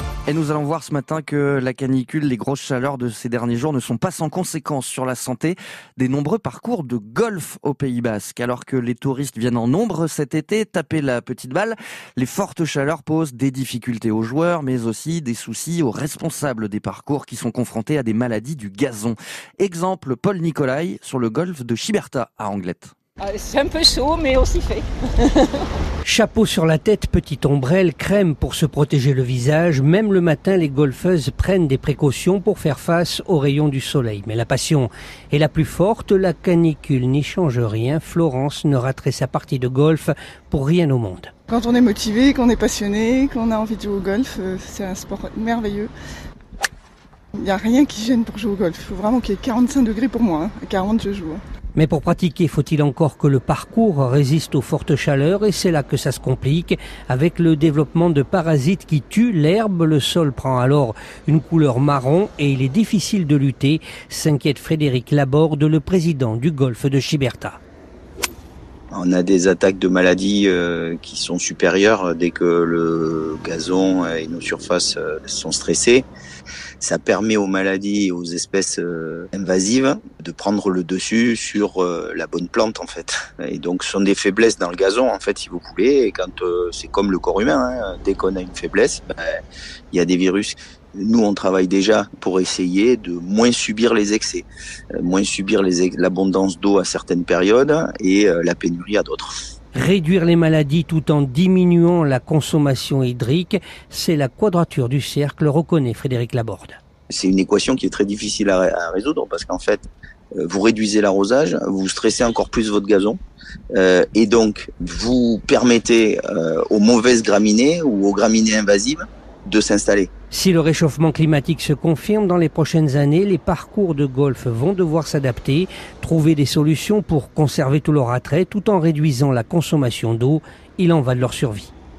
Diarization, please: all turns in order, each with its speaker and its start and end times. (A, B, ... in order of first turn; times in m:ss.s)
0:00.2-0:22.9 A
0:23.2-0:25.5 B
0:26.0-0:41.3 C
0:41.5-0:45.9 D
0:47.4-0:51.4 D
0:51.7-1:07.6 C
1:08.9-1:16.1 E
1:16.8-1:29.4 E
1:29.9-1:39.3 E
1:39.7-1:46.8 C
1:47.1-1:53.2 E
1:53.7-2:00.1 E
2:00.3-2:11.7 C